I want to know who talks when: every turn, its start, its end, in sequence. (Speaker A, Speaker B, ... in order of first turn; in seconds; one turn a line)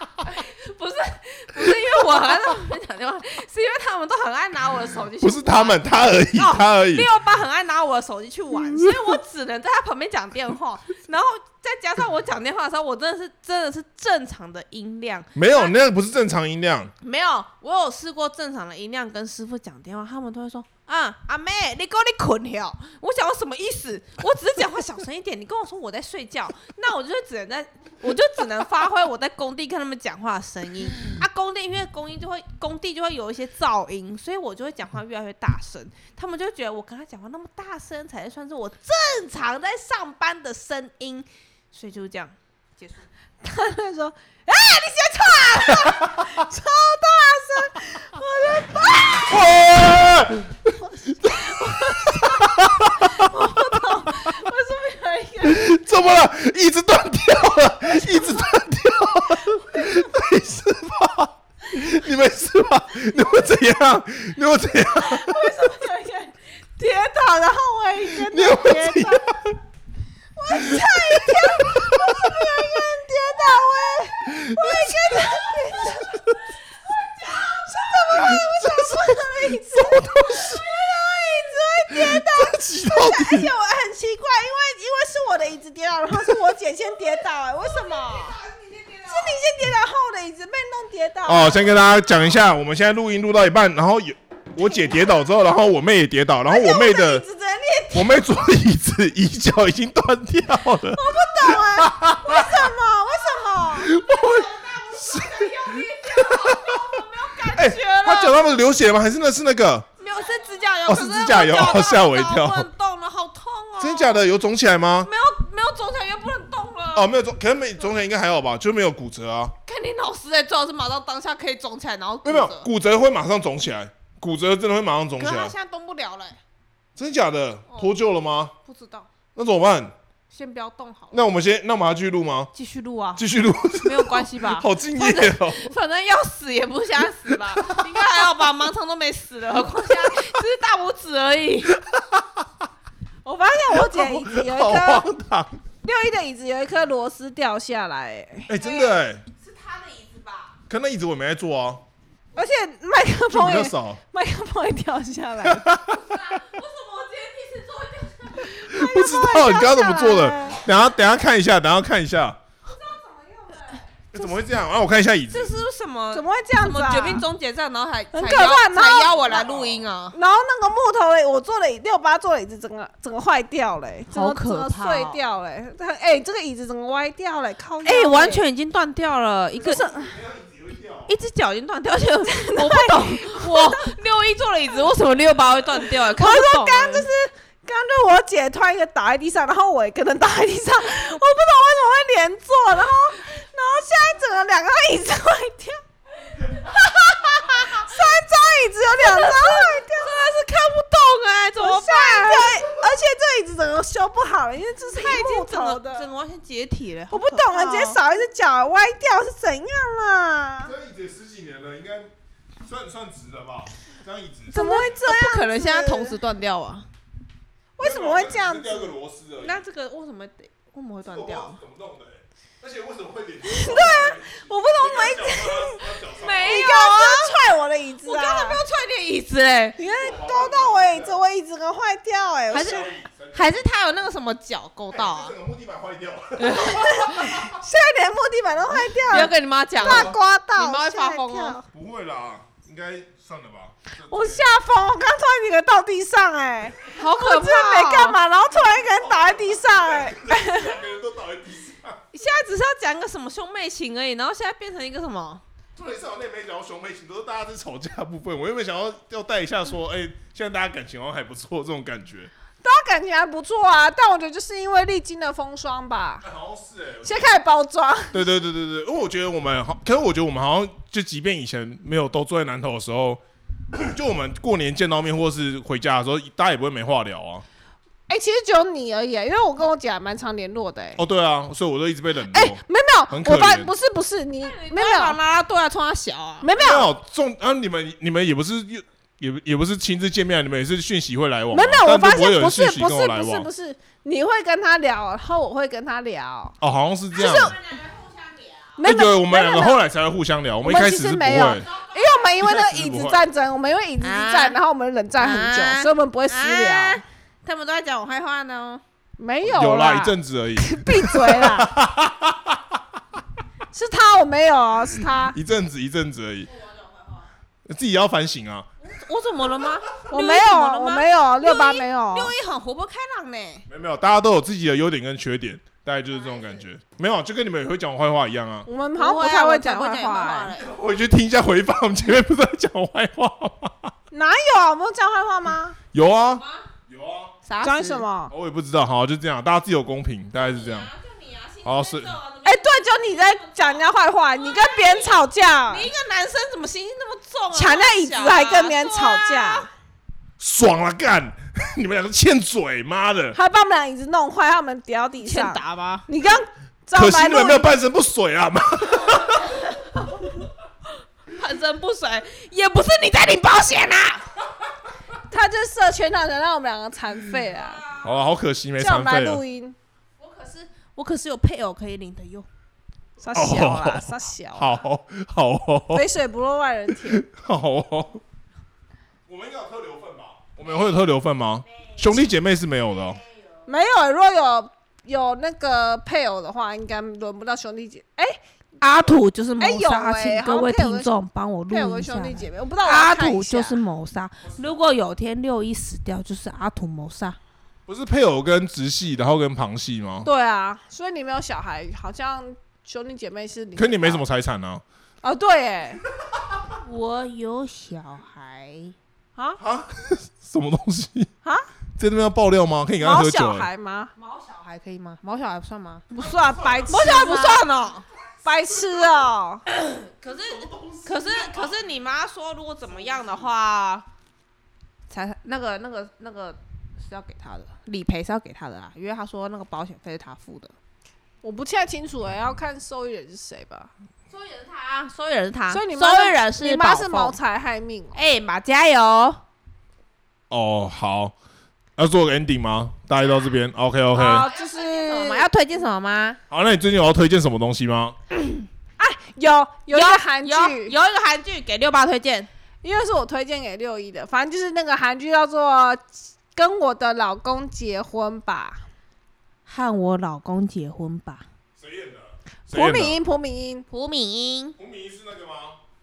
Speaker A: 0.2-15.7
Speaker B: 5.2-7.1
Speaker B: 15.3-16.9
Speaker A: 17.0-43.1
Speaker C: 43.4-49.6
Speaker B: 49.2-50.5
Speaker C: 50.8-55.7
Speaker B: 51.3-53.3
Speaker B: 55.4-65.5
Speaker C: 58.1-60.3
Speaker C: 64.7-69.2
Speaker B: 68.1-69.6
Speaker C: 70.3-76.2
Speaker B: 70.5-72.4
Speaker B: 74.2-76.4
Speaker C: 76.9-88.4
Speaker B: 78.2-79.1
Speaker B: 79.7-80.6
Speaker B: 81.9-83.5
Speaker A: 88.4-89.0
Speaker C: 89.0-91.7
Speaker B: 91.2-97.2
Speaker C: 94.6-95.0
Speaker C: 96.5-98.4
Speaker B: 97.9-102.6
Speaker C: 100.8-104.0
Speaker B: 103.7-106.8
Speaker A: 104.1-108.4
Speaker C: 105.1-107.8
Speaker B: 107.5-109.9
Speaker A: 110.0-114.2
Speaker B: 110.9-112.7
Speaker B: 113.8-115.1
Speaker A: 115.0-117.1
Speaker B: 116.9-119.5
Speaker A: 119.7-122.7
Speaker B: 122.2-125.5
Speaker A: 125.2-126.4
Speaker B: 127.0-128.5
Speaker A: 128.6-129.1
Speaker B: 129.3-129.9
Speaker A: 130.3-131.2
Speaker B: 131.1-132.5
Speaker A: 132.5-133.2
Speaker B: 133.2-135.7
Speaker A: 133.7-141.8
Speaker B: 137.5-137.9
Speaker B: 141.9-142.2
Speaker C: 143.2-145.1
Speaker B: 143.7-145.6
Speaker C: 145.8-148.5
Speaker B: 148.5-149.2
Speaker A: 148.6-150.6
Speaker B: 150.7-151.8
Speaker C: 152.3-155.7
Speaker B: 153.3-154.0
Speaker B: 155.4-156.2
Speaker A: 155.9-158.6
Speaker C: 158.4-160.6
Speaker B: 158.6-162.4
Speaker C: 162.7-163.8
Speaker B: 164.1-165.5
Speaker A: 165.3-170.2
Speaker C: 166.1-167.2
Speaker C: 168.1-178.4
Speaker B: 169.3-169.8
Speaker A: 174.1-175.2
Speaker A: 177.8-179.9
Speaker C: 179.6-180.1
Speaker B: 179.6-181.1
Speaker A: 181.1-187.1
Speaker C: 182.2-183.9
Speaker C: 186.0-195.8
Speaker C: 196.3-200.2
Speaker A: 199.0-202.6
Speaker C: 201.5-206.1
Speaker A: 204.9-208.0
Speaker C: 207.1-210.7
Speaker B: 210.6-212.1
Speaker B: 212.6-214.6
Speaker C: 214.5-216.2
Speaker A: 214.5-216.9
Speaker C: 217.8-218.9
Speaker B: 217.8-219.6
Speaker A: 219.4-221.6
Speaker B: 221.0-226.7
Speaker C: 223.4-228.6
Speaker A: 226.2-227.4
Speaker A: 228.0-229.8
Speaker C: 229.8-232.9
Speaker B: 230.0-231.1
Speaker A: 232.5-235.3
Speaker B: 232.5-233.6
Speaker B: 234.9-237.4
Speaker A: 236.4-237.3
Speaker C: 236.6-241.7
Speaker A: 239.1-241.6
Speaker B: 239.8-240.2
Speaker B: 241.7-244.4
Speaker C: 244.1-250.8
Speaker A: 246.9-248.2
Speaker B: 249.0-252.0
Speaker A: 252.1-255.4
Speaker B: 255.8-262.3
Speaker C: 262.6-266.2
Speaker B: 266.2-267.2
Speaker C: 267.0-268.2
Speaker B: 268.1-273.2
Speaker B: 273.7-277.4
Speaker C: 278.1-281.0
Speaker B: 281.0-283.7
Speaker C: 282.3-285.2
Speaker A: 284.4-286.5
Speaker C: 286.4-286.9
Speaker B: 286.5-293.5
Speaker C: 291.5-296.6
Speaker B: 296.6-297.5
Speaker A: 297.1-298.8
Speaker C: 298.8-299.8
Speaker B: 298.8-301.7
Speaker C: 300.6-307.0
Speaker A: 301.5-302.3
Speaker B: 302.4-303.2
Speaker A: 304.0-304.6
Speaker A: 305.2-308.8
Speaker C: 309.2-311.7
Speaker B: 309.4-312.8
Speaker C: 313.7-315.4
Speaker B: 315.3-316.5
Speaker A: 316.6-317.2
Speaker B: 317.6-318.7
Speaker A: 318.8-323.6
Speaker C: 320.1-322.3
Speaker B: 323.7-328.7
Speaker A: 326.1-326.6
Speaker C: 328.7-330.5
Speaker A: 329.0-330.7
Speaker B: 330.5-333.9
Speaker C: 334.1-335.8
Speaker B: 335.9-337.3
Speaker A: 336.4-336.6
Speaker A: 337.4-338.0
Speaker C: 337.6-338.3
Speaker B: 338.3-340.9
Speaker A: 340.4-349.7
Speaker B: 341.6-342.1
Speaker C: 342.4-345.9
Speaker C: 347.5-349.7
Speaker B: 350.4-353.4
Speaker C: 353.3-357.7
Speaker A: 355.2-356.1
Speaker B: 356.9-359.6
Speaker A: 361.3-364.3
Speaker C: 365.3-367.8
Speaker A: 367.5-368.2
Speaker B: 368.0-369.4
Speaker C: 368.8-369.8
Speaker A: 370.2-372.5
Speaker C: 373.2-374.8
Speaker B: 373.3-376.0
Speaker C: 375.9-377.2
Speaker B: 377.1-378.2
Speaker B: 379.3-383.2
Speaker C: 383.6-388.4
Speaker A: 388.8-397.4
Speaker C: 389.6-393.8
Speaker B: 397.9-400.3
Speaker C: 400.2-404.2
Speaker B: 403.8-404.8
Speaker C: 405.2-406.0
Speaker A: 406.8-408.9
Speaker B: 409.6-411.3
Speaker C: 411.4-411.7
Speaker B: 412.0-413.7
Speaker C: 413.0-414.1
Speaker A: 414.2-416.1
Speaker C: 416.1-417.6
Speaker A: 416.9-418.0
Speaker C: 418.4-419.6
Speaker A: 419.7-424.0
Speaker B: 420.4-421.7
Speaker A: 425.1-430.7
Speaker C: 431.4-433.9
Speaker A: 434.3-437.4
Speaker C: 435.7-438.1
Speaker A: 438.1-439.4
Speaker B: 440.5-441.3
Speaker B: 442.0-444.5
Speaker C: 444.1-445.5
Speaker A: 444.2-446.4
Speaker B: 446.5-448.1
Speaker C: 449.0-450.9
Speaker A: 449.9-452.5
Speaker C: 452.8-458.8
Speaker A: 459.7-461.4
Speaker B: 461.8-463.2
Speaker C: 462.7-463.9
Speaker A: 463.9-464.8
Speaker B: 464.8-465.8